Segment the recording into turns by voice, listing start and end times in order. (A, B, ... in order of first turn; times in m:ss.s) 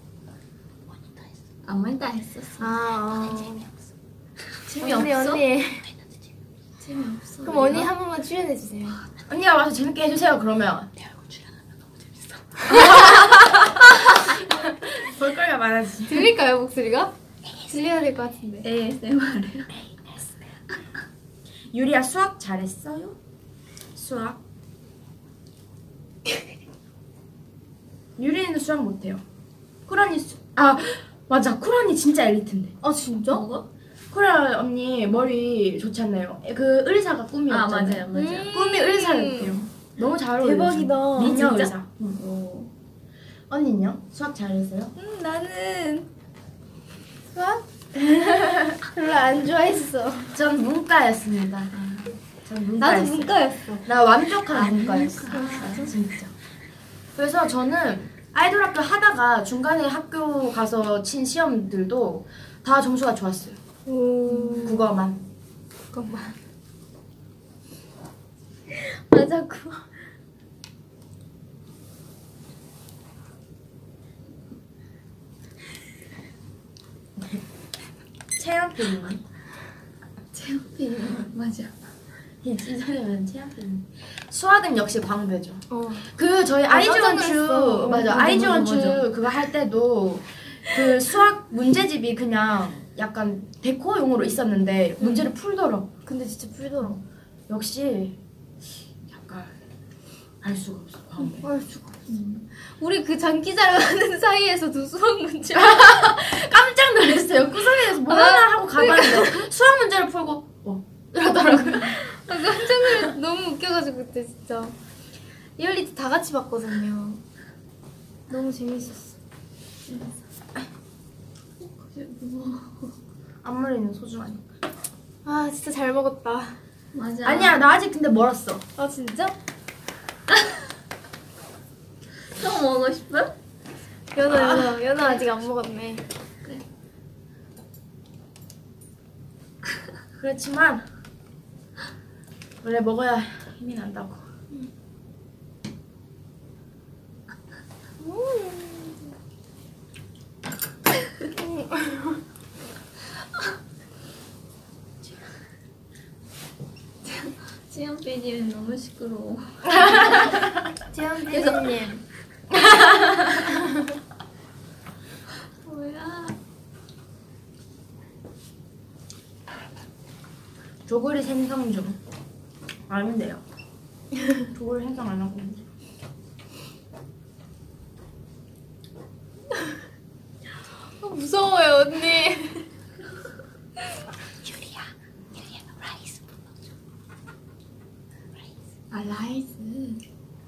0:01.6-0:02.8 A
0:02.6-0:03.7 B
0:04.6-0:05.4 A
0:04.7-0:05.8 B
0:06.8-0:07.9 A
0:07.4-0:09.0 B
0:09.3-0:10.9 C
0:12.6-0:16.3 C
0:12.7-0:13.3 B
0:14.3-0:14.6 B
0:16.0-0:17.1 B
0:17.6-0:18.7 B
0:18.6-0:19.7 A
0:21.7-0:23.2 C
0:23.9-0:24.4 C
0:28.2-0:29.2 C
0:29.9-0:32.7 C
0:32.8-0:33.4 B
0:33.3-0:33.6 A
0:34.1-0:42.2 C
0:37.5-0:38.5 A
0:38.1-0:39.6 B
0:40.4-0:41.7 B
0:42.1-0:42.7 A
0:43.5-0:44.9 C
0:45.0-0:46.1 B
0:47.3-0:50.3 B
0:48.2-0:48.8 C
0:50.3-0:51.7 C
0:51.7-0:52.1 A
0:52.4-0:56.3 C
0:52.8-0:53.9 B
0:54.5-0:55.9 A
0:55.2-0:55.9 B
0:57.1-1:03.6 C
1:03.8-1:04.9 B
1:04.3-1:04.8 A
1:04.6-1:05.2 C
1:05.9-1:06.4 B
1:08.7-1:09.9 B
1:18.4-1:19.2 C
1:20.3-1:21.8 A
1:22.4-1:35.9 C
1:25.7-1:26.1 B
1:26.7-1:28.6 B
1:28.0-1:29.0 A
1:35.0-1:35.3 B
1:36.0-1:37.0 B
1:37.5-1:38.2 C
1:39.1-1:39.5 C
1:40.4-1:41.5 C
1:41.2-1:42.1 B
1:42.1-1:42.4 A
1:42.7-1:46.0 B
1:45.5-1:52.0 C
1:47.9-1:49.5 B
1:51.8-1:54.7 B
1:55.6-1:57.2 B
1:58.3-1:59.2 B
1:59.9-2:00.2 A
2:01.6-2:02.9 A
2:03.4-2:04.4 C
2:05.2-2:06.6 B
2:06.9-2:07.6 A
2:07.2-2:08.6 C
2:08.8-2:09.3 B
2:12.3-2:13.3 A
2:14.1-2:16.0 B
2:14.3-2:14.7 C
2:20.2-2:20.8 C
2:22.6-2:24.2 C
2:28.0-2:29.1 B
2:31.4-2:32.2 B
2:37.0-2:40.4 A
2:39.7-2:40.4 C
2:40.9-2:42.0 B
2:41.3-2:41.9 A
2:42.5-2:43.4 C
2:43.5-2:43.8 B
2:45.6-2:46.4 A
2:50.9-2:52.0 C
2:52.9-2:53.4 C
2:54.4-2:55.6 C
3:01.0-3:02.7 B
3:08.9-3:10.0 A